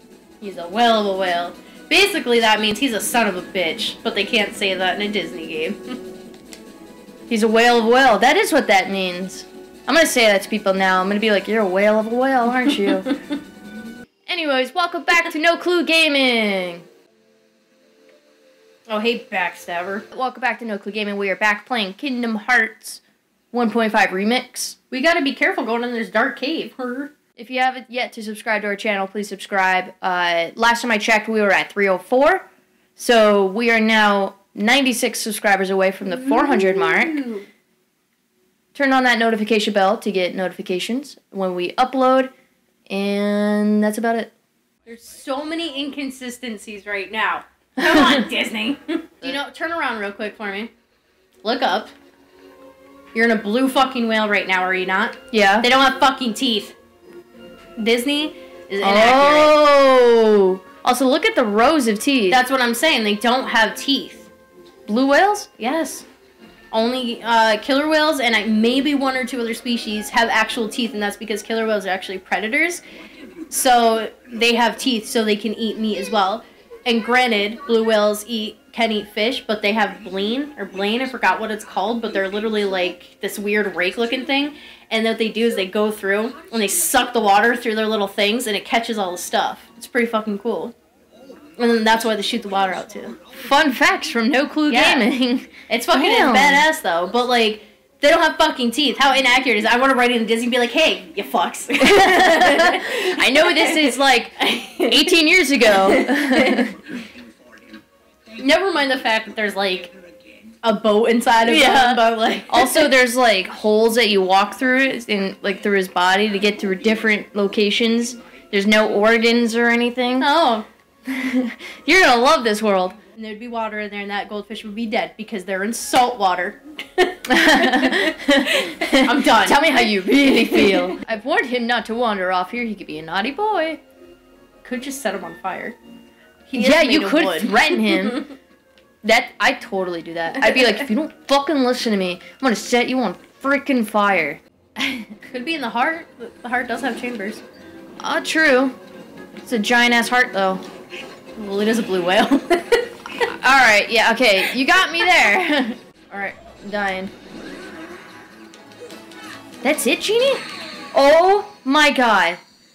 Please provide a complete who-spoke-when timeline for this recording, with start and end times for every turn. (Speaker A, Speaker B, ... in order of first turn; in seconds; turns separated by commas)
Speaker A: 0.4-6.0, Speaker B: 7.3-13.1, Speaker B: 14.3-16.8, Speaker A: 18.9-20.1, Speaker B: 20.1-23.0, Speaker B: 23.5-24.8, Speaker A: 24.9-27.1, Speaker B: 27.4-32.4, Speaker B: 33.0-37.2, Speaker A: 36.0-37.5, Speaker B: 38.7-42.3, Speaker B: 42.9-44.3, Speaker A: 44.9-50.7, Speaker B: 47.8-48.2, Speaker A: 51.4-51.9, Speaker A: 53.1-56.8, Speaker B: 55.3-55.7, Speaker A: 57.8-59.5, Speaker B: 58.8-62.4, Speaker A: 62.3-64.3, Speaker B: 64.9-65.5, Speaker A: 65.6-66.0, Speaker A: 66.7-72.8, Speaker A: 73.5-90.7, Speaker A: 91.6-93.2, Speaker B: 93.3-96.7, Speaker A: 94.7-95.1, Speaker A: 95.7-106.7, Speaker B: 101.8-104.3, Speaker B: 104.9-106.7, Speaker A: 108.4-109.9, Speaker A: 110.6-112.9, Speaker B: 111.4-120.3, Speaker A: 120.2-120.7, Speaker B: 121.1-123.0, Speaker A: 123.1-131.0, Speaker B: 127.3-133.8, Speaker A: 134.6-135.8, Speaker A: 136.5-138.3, Speaker B: 136.6-138.3, Speaker B: 139.0-145.1, Speaker A: 140.4-140.8, Speaker A: 145.3-147.4, Speaker B: 148.0-148.7, Speaker B: 149.4-150.6, Speaker A: 151.4-152.9, Speaker B: 153.2-157.1, Speaker B: 159.6-162.4